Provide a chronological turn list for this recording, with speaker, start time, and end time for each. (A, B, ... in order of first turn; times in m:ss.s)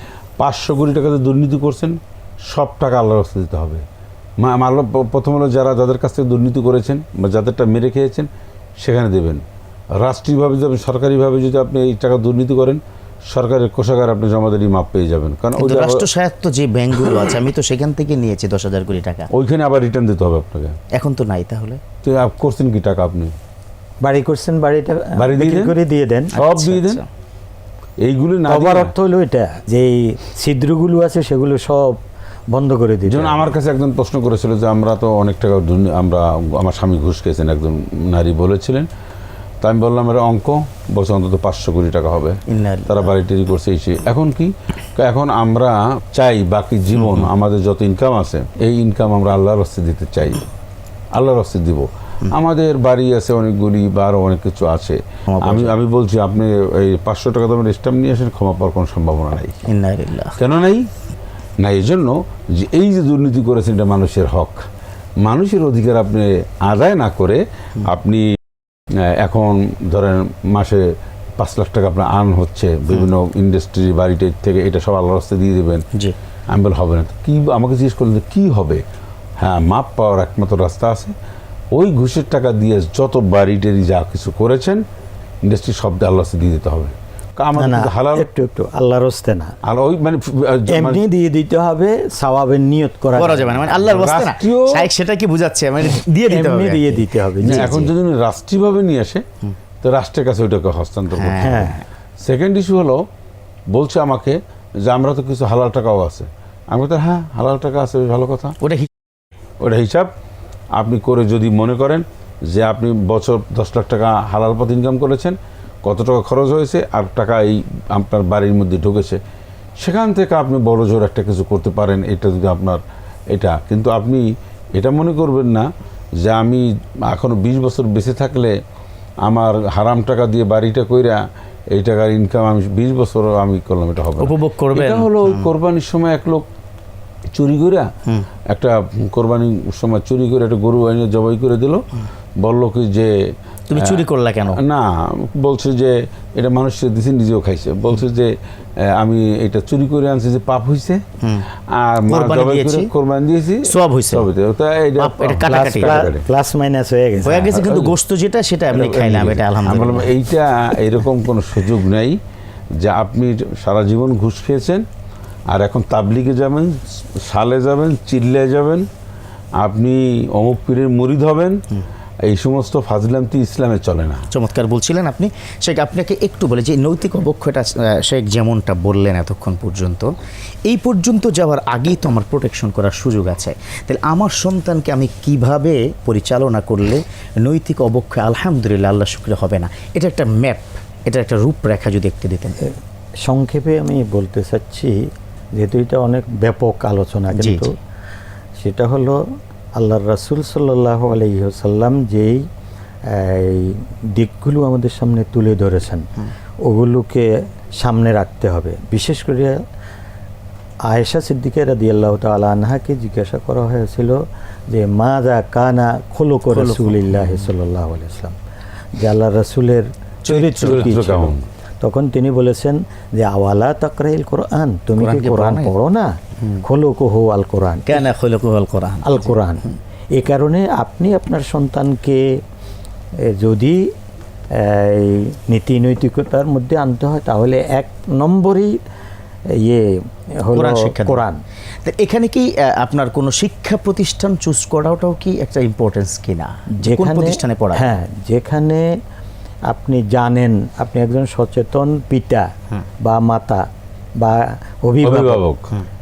0:00.4-0:03.8 A
0:04.4-0:08.3 A
0:08.8-0:09.4 A
0:10.0-0:16.1 A
0:15.6-0:19.3 B
0:19.3-0:20.8 A
0:20.9-0:21.8 B
0:22.0-0:23.4 A
0:24.0-0:26.3 C
0:25.2-0:25.8 A
0:26.3-0:27.1 B
0:26.3-0:27.0 A
0:28.0-0:28.9 A
0:28.5-0:32.0 C
0:32.5-0:33.5 C
0:33.1-0:38.9 A
0:39.6-0:50.4 A
0:42.5-0:43.1 B
0:47.0-0:47.3 B
0:51.2-0:59.6 A
0:55.3-0:55.8 B
0:59.7-1:00.4 B
1:00.4-1:00.9 A
1:01.6-1:04.6 A
1:05.2-1:08.3 A
1:08.9-1:15.8 A
1:16.5-1:18.8 A
1:19.4-1:21.1 A
1:21.8-1:24.8 A
1:25.4-1:28.3 A
1:27.6-1:29.6 C
1:29.6-1:31.0 A
1:30.7-1:33.7 C
1:33.2-1:37.9 B
1:33.8-1:34.9 A
1:36.3-1:37.9 C
1:37.4-1:39.3 A
1:39.8-1:41.7 A
1:41.2-1:41.8 B
1:41.4-1:41.8 C
1:42.2-1:43.0 A
1:43.7-1:48.6 A
1:48.6-1:48.9 B
1:49.6-1:50.1 A
1:50.8-1:59.2 A
1:59.8-2:04.3 A
2:04.8-2:05.7 A
2:06.2-2:08.6 A
2:09.2-2:11.2 A
2:11.7-2:16.5 A
2:14.2-2:15.5 B
2:17.4-2:17.9 A
2:18.5-2:21.8 A
2:22.4-2:23.1 A
2:23.7-2:24.6 B
2:23.8-2:31.0 A
2:31.7-2:36.3 A
2:32.1-2:32.9 B
2:33.6-2:34.3 B
2:35.0-2:36.0 B
2:35.5-2:37.6 C
2:37.2-2:40.1 B
2:37.5-2:38.0 A
2:38.7-2:42.2 A
2:42.8-2:44.9 A
2:45.5-2:48.9 A
2:49.6-2:51.6 A
2:52.3-2:54.3 A
2:54.3-3:00.1 B
3:00.7-3:12.6 B
3:13.2-3:17.7 C
3:17.4-3:17.7 B
3:18.6-3:19.2 C
3:19.8-3:22.4 C
3:23.1-3:26.1 C
3:26.7-3:29.6 C
3:30.9-3:38.4 C
3:36.5-3:37.5 B
3:39.0-3:48.1 C
3:40.3-3:40.9 B
3:40.6-3:41.5 A
3:45.0-3:45.7 B
3:47.9-3:49.4 B
3:49.0-3:52.4 C
3:53.2-3:53.9 C
3:54.5-3:58.8 C
3:59.6-4:01.4 C
4:00.5-4:01.2 B
4:01.8-4:07.9 B
4:06.8-4:08.9 C
4:09.7-4:12.5 C
4:13.0-4:13.6 C
4:14.2-4:15.4 C
4:15.0-4:15.7 A